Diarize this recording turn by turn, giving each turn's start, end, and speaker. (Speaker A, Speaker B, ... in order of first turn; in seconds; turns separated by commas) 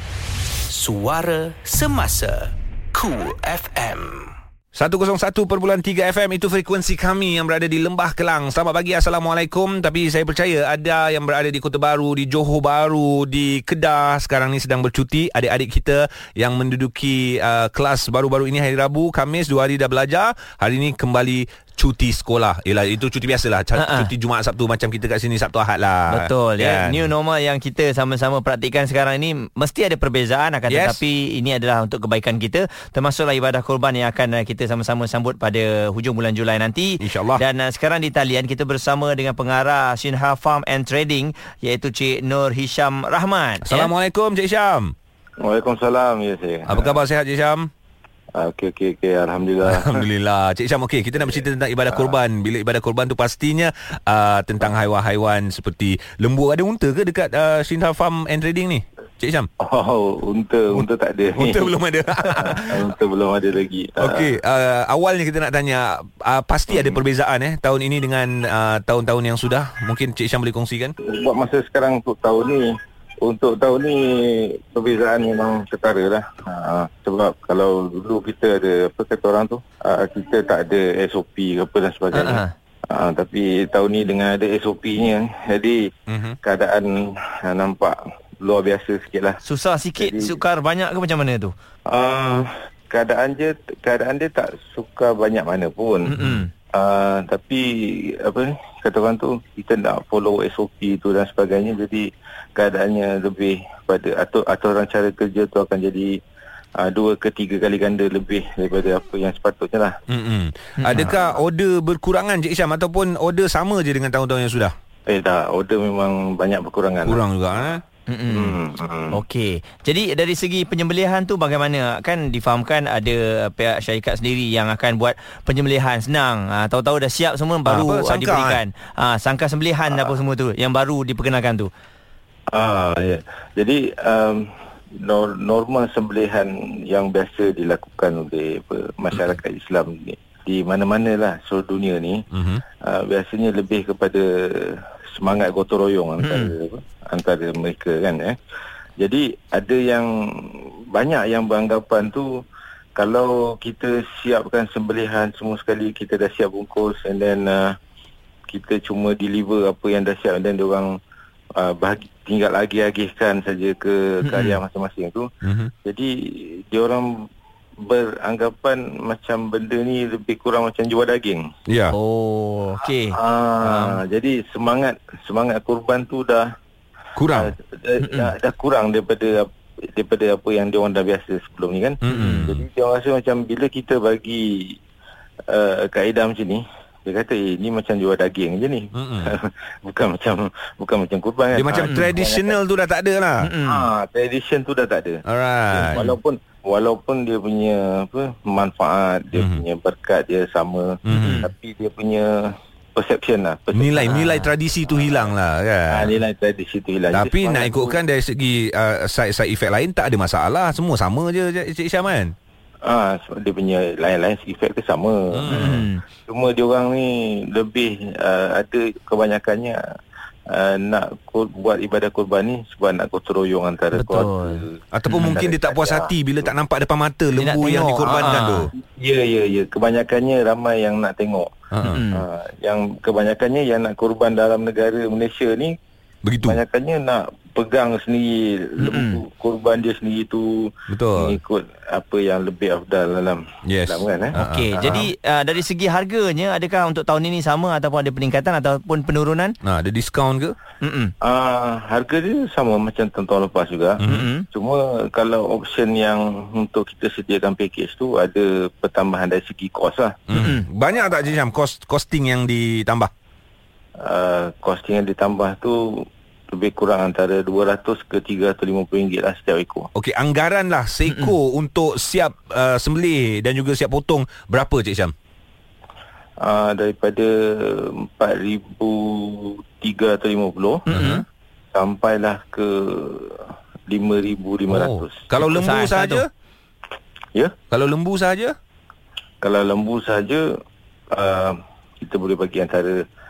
Speaker A: 0.7-4.3, Speaker B: 4.7-27.1, Speaker C: 23.8-24.1, Speaker C: 26.1-43.9, Speaker B: 30.7-31.0, Speaker B: 37.0-37.4, Speaker B: 43.6-44.9, Speaker D: 45.4-47.0, Speaker B: 46.7-47.7, Speaker D: 48.4-50.0, Speaker B: 49.6-59.5, Speaker D: 59.6-64.3, Speaker B: 60.7-62.8, Speaker B: 64.0-70.9, Speaker D: 71.0-72.7, Speaker D: 73.2-85.9, Speaker C: 82.1-82.5, Speaker B: 86.1-86.4, Speaker D: 86.4-89.4, Speaker C: 89.4-91.5, Speaker D: 90.0-90.3, Speaker D: 91.9-96.1, Speaker C: 96.1-96.5, Speaker B: 96.2-96.5, Speaker D: 96.7-106.2, Speaker D: 106.8-109.9, Speaker B: 110.1-114.7, Speaker C: 110.8-111.0, Speaker D: 111.0-111.3, Speaker D: 115.1-117.2, Speaker B: 117.0-117.8, Speaker C: 118.1-118.5, Speaker D: 118.3-119.1, Speaker C: 119.1-131.7, Speaker B: 127.7-128.6, Speaker D: 132.5-142.2, Speaker B: 142.3-142.6, Speaker D: 142.8-148.4, Speaker C: 146.2-146.5, Speaker D: 149.0-152.3, Speaker D: 152.9-157.8, Speaker D: 158.5-160.9, Speaker D: 161.6-165.3, Speaker C: 164.2-164.6, Speaker B: 165.4-165.7, Speaker D: 165.8-167.3, Speaker D: 167.8-171.5, Speaker B: 171.7-171.9, Speaker C: 171.9-174.0, Speaker D: 173.1-176.4, Speaker B: 177.2-177.5, Speaker D: 177.3-184.8, Speaker C: 178.0-178.3, Speaker B: 182.0-182.6, Speaker C: 182.1-182.4, Speaker D: 185.5-192.5, Speaker B: 188.9-189.3, Speaker B: 191.5-193.5, Speaker C: 193.4-193.8, Speaker D: 193.6-204.3, Speaker B: 195.2-196.0, Speaker B: 199.3-199.6, Speaker B: 201.1-201.5, Speaker C: 201.1-201.5, Speaker B: 203.7-206.1, Speaker C: 204.1-204.5, Speaker D: 205.9-207.9, Speaker B: 207.1-212.3, Speaker D: 212.8-219.8, Speaker B: 215.3-215.8, Speaker C: 215.5-216.0, Speaker D: 220.5-226.1, Speaker C: 223.9-224.6, Speaker B: 224.9-228.7, Speaker C: 227.4-228.7, Speaker D: 228.8-231.5, Speaker B: 231.7-232.0, Speaker C: 231.8-232.2, Speaker D: 232.1-235.7, Speaker B: 236.2-236.6, Speaker D: 236.4-245.1, Speaker C: 238.8-239.2, Speaker B: 240.9-241.4, Speaker B: 243.6-245.0, Speaker C: 244.3-249.5, Speaker B: 249.6-250.5, Speaker C: 250.8-251.1, Speaker D: 251.2-254.0, Speaker C: 254.0-254.4, Speaker D: 254.5-260.2, Speaker B: 260.3-263.1, Speaker C: 260.3-260.6, Speaker D: 264.0-269.9, Speaker B: 269.9-275.1, Speaker D: 276.4-280.8, Speaker C: 280.9-281.2, Speaker B: 280.9-281.2, Speaker D: 281.7-285.2, Speaker B: 284.7-286.3, Speaker C: 285.4-286.2, Speaker B: 287.7-288.5, Speaker D: 289.4-290.4, Speaker D: 291.1-292.9